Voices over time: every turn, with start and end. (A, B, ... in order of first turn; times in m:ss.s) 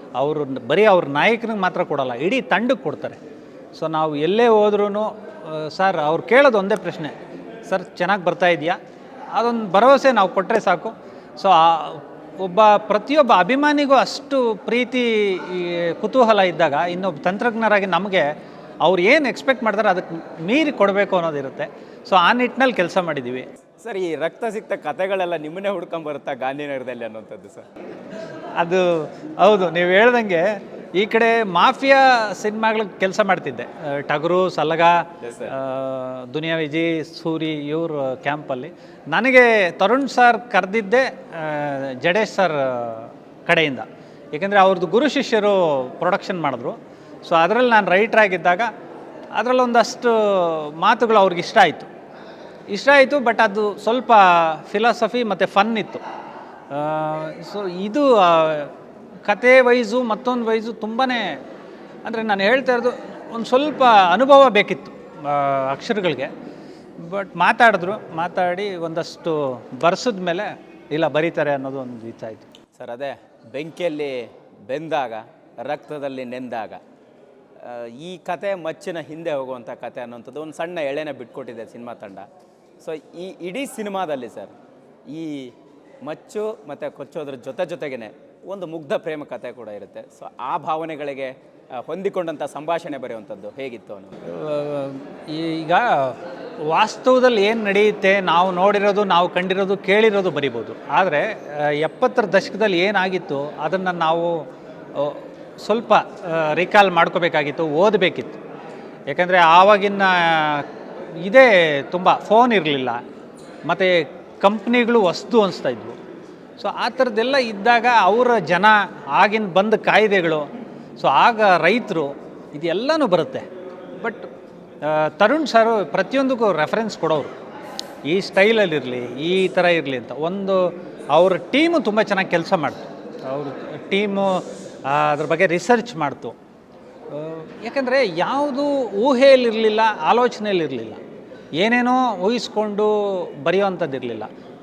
0:00.2-0:03.2 A
0:03.7-0:07.1 A
0:07.7-0:08.8 A
0:09.3-0:18.3 A
0:18.8-0:23.5 A
0:23.8-0:27.6 B
0:28.6-0:48.7 A
0:35.2-0:35.5 B
0:49.3-0:51.9 A
0:52.7-0:56.0 A
0:56.7-0:58.7 A
0:59.2-1:01.4 A
1:02.0-1:06.3 A
1:07.0-1:12.5 A
1:12.8-1:16.8 B
1:17.6-1:22.3 B
1:22.8-1:24.5 B
1:25.1-1:25.5 B
1:26.0-1:34.1 B
1:34.2-1:48.4 A
1:49.1-1:50.7 A
1:51.2-1:53.0 A
1:53.7-1:56.0 A
1:56.6-2:00.4 A
2:01.0-2:04.2 A
2:04.8-2:07.3 A
2:08.0-2:16.3 A
2:17.1-2:21.0 A
2:21.6-2:24.3 A